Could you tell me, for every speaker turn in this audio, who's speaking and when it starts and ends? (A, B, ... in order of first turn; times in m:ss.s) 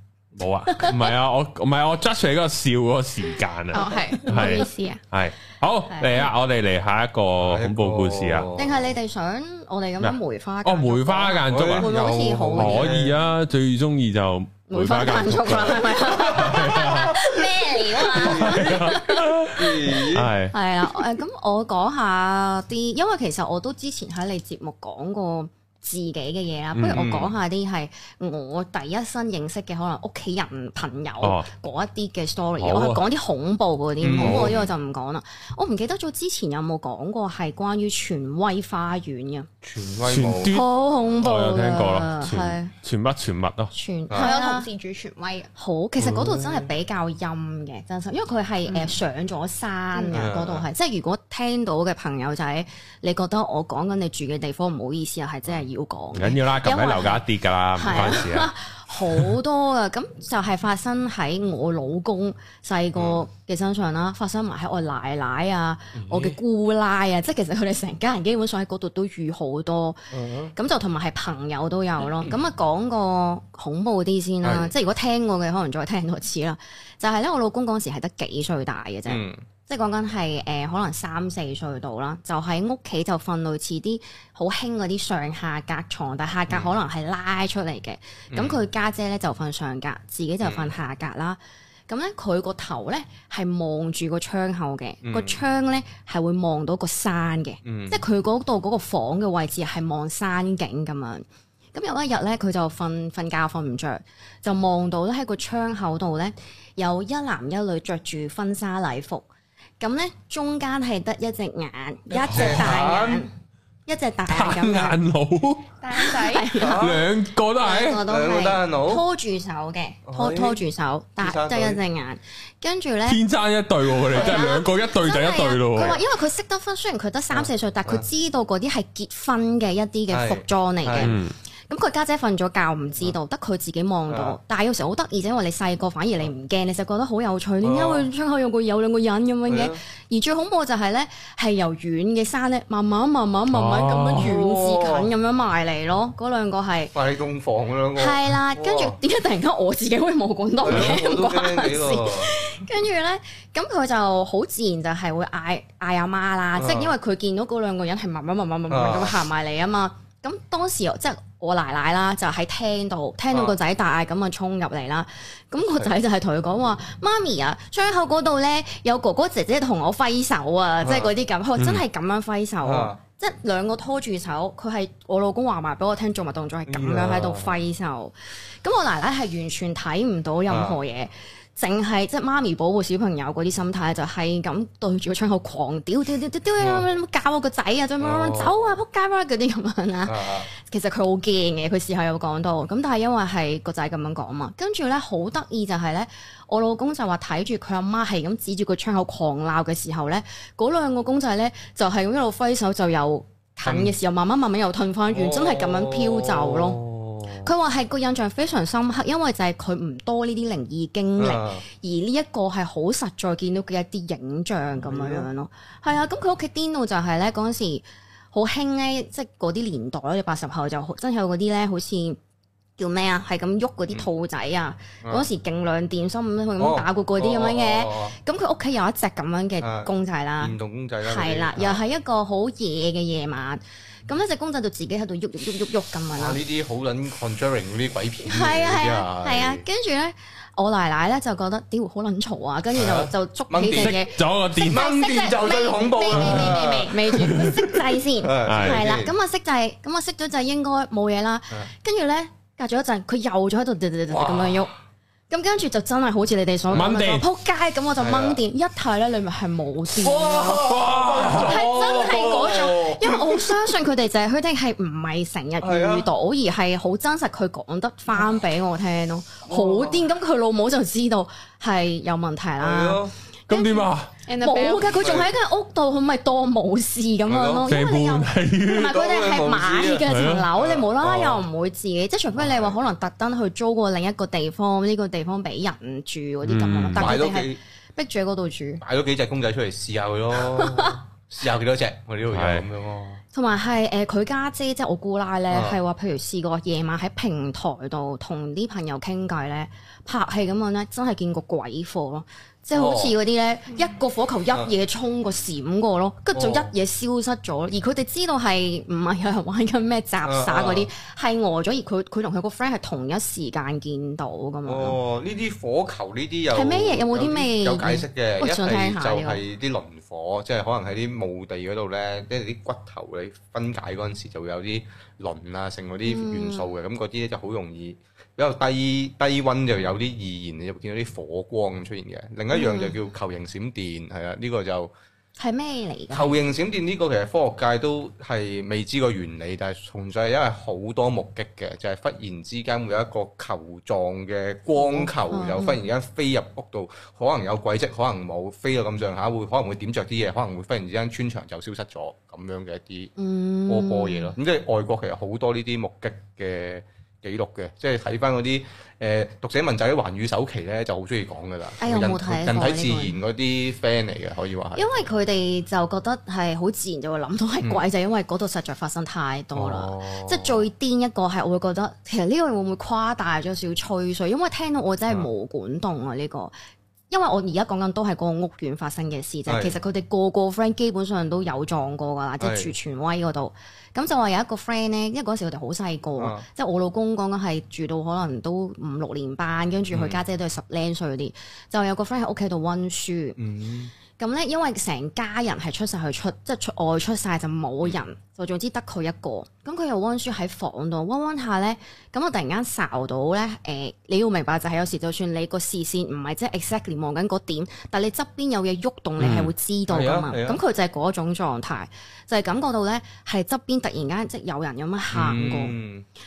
0:00.4-0:08.5 A
0:03.7-0:05.0 B
0:04.2-0:04.6 C
0:05.9-0:06.2 C
0:07.4-0:08.9 D
0:08.5-0:13.0 C
0:10.0-0:11.9 A
0:11.5-0:13.2 D
0:12.5-0:17.3 A
0:14.7-0:39.5 C
0:18.1-0:20.3 D
0:18.1-0:20.5 A
0:26.7-0:27.1 A
0:26.9-0:27.3 D
0:31.2-0:31.5 A
0:32.6-0:33.0 A
0:34.0-0:34.7 D
0:34.2-0:34.6 A
0:39.6-0:40.5 D
0:40.0-0:43.7 A
0:40.5-0:42.7 C
0:43.7-0:44.7 C
0:44.2-0:45.5 B
0:45.6-1:49.2 C
0:46.0-0:46.7 D
0:49.9-0:50.2 B
0:50.1-0:50.7 D
0:56.1-0:58.5 A
1:03.0-1:03.2 D
1:05.9-1:06.4 D
1:10.1-1:10.5 D
1:14.4-1:14.7 D
1:19.1-1:19.4 D
1:26.5-1:26.8 D
1:28.3-1:28.6 D
1:30.4-1:30.7 D
1:35.0-1:35.4 D
1:37.6-1:38.0 D
1:49.8-1:53.3 C
1:52.1-1:53.3 D
1:52.3-1:52.8 A
1:53.9-1:55.0 C
1:54.3-1:55.7 A
1:55.8-1:56.6 B
1:55.9-1:57.0 C
1:56.6-1:57.1 D
1:56.7-1:58.0 A
1:57.6-2:03.2 C
1:58.0-1:59.0 D
2:00.1-2:00.6 D
2:01.2-2:01.8 D
2:03.1-2:06.0 A
2:04.1-2:26.9 C
2:07.3-2:08.1 D
2:10.1-2:11.1 D
2:11.0-2:11.4 A
2:14.1-2:14.4 D
2:17.6-2:18.1 D
2:19.5-2:19.8 D
2:23.5-2:24.3 A
2:24.2-2:25.1 D
2:26.9-2:29.0 D
2:27.9-3:42.2 C
2:30.6-2:32.5 D
2:36.6-2:36.9 D
2:38.7-2:39.2 D
2:50.8-2:51.1 D
2:51.6-2:51.8 A
2:52.6-2:53.0 D
2:56.7-2:57.6 D
3:00.5-3:00.8 D
3:06.6-3:06.9 D
3:08.0-3:08.7 D
3:10.0-3:10.5 D
3:23.6-3:23.9 D
3:25.1-3:27.5 D
3:31.2-3:31.6 D
3:34.8-3:35.3 D
3:42.8-3:56.4 C
3:46.6-3:48.1 D
3:49.6-3:51.8 D
3:56.2-3:59.6 D
3:58.2-4:14.7 C
4:02.7-4:07.6 D
4:03.6-4:04.9 A
4:06.2-4:06.6 A
4:06.2-4:06.8 B
4:07.1-4:07.8 A
4:08.2-4:09.1 D
4:08.4-4:08.8 A
4:14.1-4:14.7 D
4:15.3-4:33.0 C
4:16.7-4:17.2 A
4:18.0-4:18.4 D
4:20.0-4:23.7 D
4:20.6-4:21.7 A
4:25.6-4:26.1 D
4:29.5-4:30.0 D
4:32.6-4:33.1 D
4:33.5-4:34.1 A
4:34.2-4:35.0 B
4:34.4-4:48.8 C
4:34.8-4:35.3 D
4:37.2-4:37.7 D
4:37.6-4:39.0 A
4:38.8-4:41.4 D
4:40.0-4:40.5 A
4:42.4-4:42.8 D
4:46.4-4:47.1 A
4:46.9-4:47.6 D
4:48.8-4:53.2 D
4:50.5-4:51.0 C
4:52.3-4:52.6 A
4:53.3-5:15.0 C
4:55.5-4:55.8 D
5:02.7-5:03.1 D
5:06.3-5:06.7 D
5:10.2-5:10.9 D
5:14.6-5:34.9 D
5:16.5-5:19.4 C
5:26.1-5:26.7 C
5:32.5-5:32.9 C
5:35.4-5:36.4 C
5:36.1-5:53.1 D
5:44.8-5:45.8 C
5:53.2-5:54.3 C
5:53.7-6:05.0 D
6:01.8-6:03.2 C
6:04.7-6:16.5 C
6:09.5-6:10.6 D
6:17.1-6:33.4 C
6:19.5-6:19.8 D
6:22.4-6:22.7 D
6:26.2-6:26.4 D
6:29.9-6:30.2 D
6:33.4-6:33.9 D
6:34.2-6:55.8 C
6:49.2-6:49.5 A
6:49.9-6:50.6 D
6:55.1-6:56.0 D